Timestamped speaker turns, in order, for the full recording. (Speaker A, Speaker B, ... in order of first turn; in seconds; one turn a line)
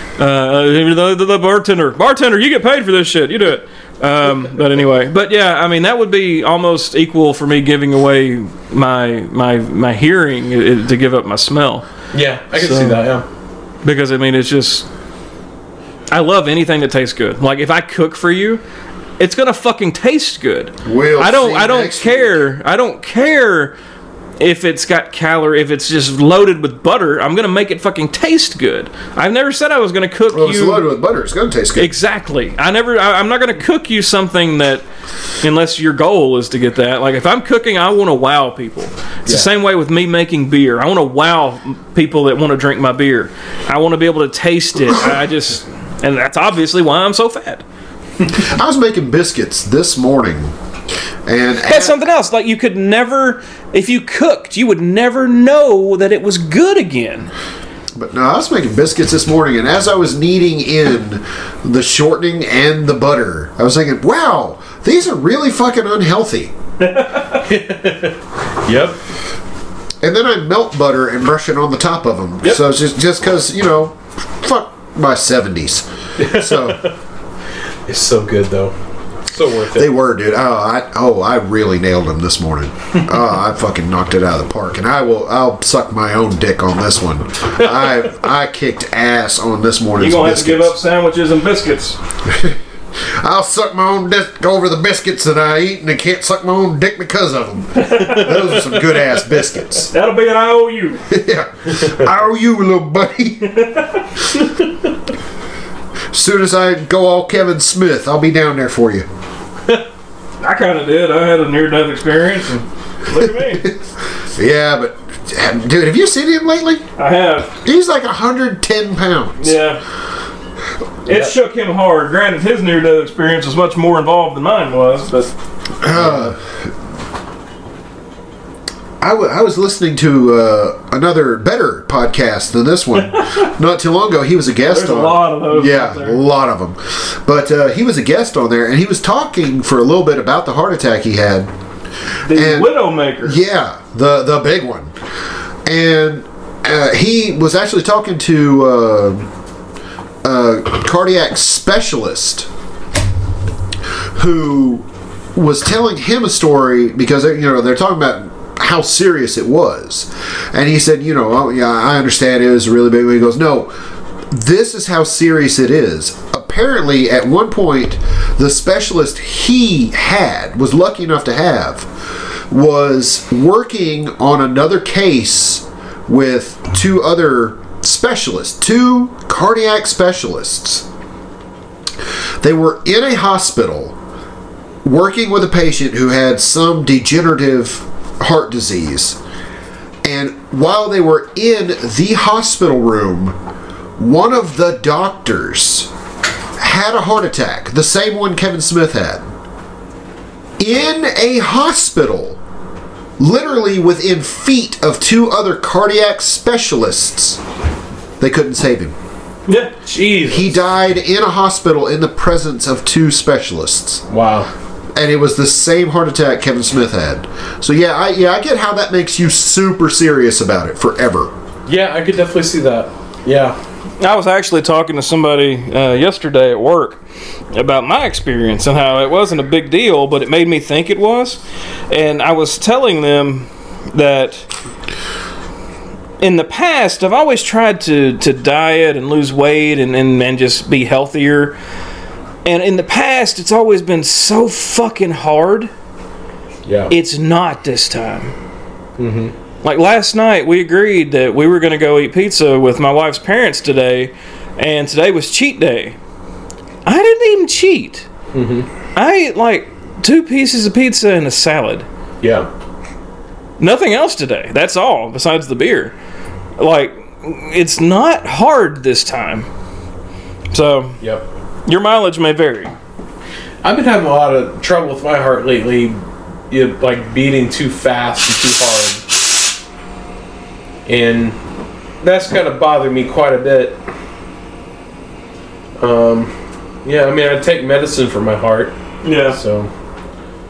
Speaker A: 0.2-11.9
Speaker B: 12.1-13.2
Speaker A: 12.5-13.0
Speaker A: 13.8-14.8
Speaker A: 16.1-18.6
Speaker A: 19.2-23.7
Speaker C: 20.8-22.4
Speaker A: 24.4-30.9
Speaker C: 30.3-31.9
Speaker A: 31.8-34.8
Speaker A: 35.4-47.6
Speaker C: 48.3-50.5
Speaker C: 51.2-52.0
Speaker A: 51.6-57.3
Speaker C: 58.0-66.5
Speaker A: 66.8-67.4
Speaker B: 67.4-69.0
Speaker C: 70.0-76.8
Speaker B: 76.2-76.9
Speaker B: 77.8-78.7
Speaker B: 79.3-79.9
Speaker C: 79.7-90.7
Speaker A: 90.0-92.0
Speaker C: 92.2-99.9
Speaker A: 97.8-99.1
Speaker A: 99.8-101.1
Speaker C: 101.1-103.7
Speaker A: 103.6-104.5
Speaker C: 106.1-109.1
Speaker A: 110.4-113.7
Speaker C: 113.2-116.8
Speaker A: 117.0-117.5
Speaker C: 117.5-119.6
Speaker A: 119.4-119.8
Speaker A: 121.0-125.3
Speaker C: 125.8-126.7
Speaker C: 129.0-141.5
Speaker A: 133.0-133.5
Speaker A: 134.7-136.2
Speaker A: 142.2-143.4
Speaker C: 142.3-144.9
Speaker C: 145.7-149.3
Speaker C: 150.2-152.5
Speaker C: 154.1-163.7
Speaker C: 164.3-180.8
Speaker C: 182.4-183.9
Speaker C: 184.8-189.2
Speaker C: 190.0-193.4
Speaker C: 194.0-195.9
Speaker C: 196.6-199.2
Speaker C: 200.6-202.4
Speaker C: 203.2-207.4
Speaker C: 208.2-208.9
Speaker A: 209.5-209.7
Speaker B: 209.8-210.6
Speaker C: 210.3-214.0
Speaker B: 214.1-214.5
Speaker C: 214.9-221.3
Speaker B: 221.7-223.6
Speaker A: 224.0-227.0
Speaker A: 227.5-234.5
Speaker A: 236.2-241.6
Speaker A: 242.4-245.7
Speaker B: 246.7-246.9
Speaker A: 246.9-248.3
Speaker B: 249.0-249.3
Speaker A: 249.6-256.0
Speaker A: 256.9-258.1
Speaker B: 258.3-258.7
Speaker A: 258.9-261.8
Speaker B: 262.2-262.5
Speaker A: 263.6-265.9
Speaker A: 266.6-269.5
Speaker A: 270.5-271.0
Speaker B: 271.0-271.2
Speaker A: 271.6-272.7
Speaker B: 273.6-279.1
Speaker B: 280.9-281.4
Speaker B: 282.0-283.8
Speaker B: 285.8-286.3
Speaker B: 286.8-289.7
Speaker A: 289.0-289.4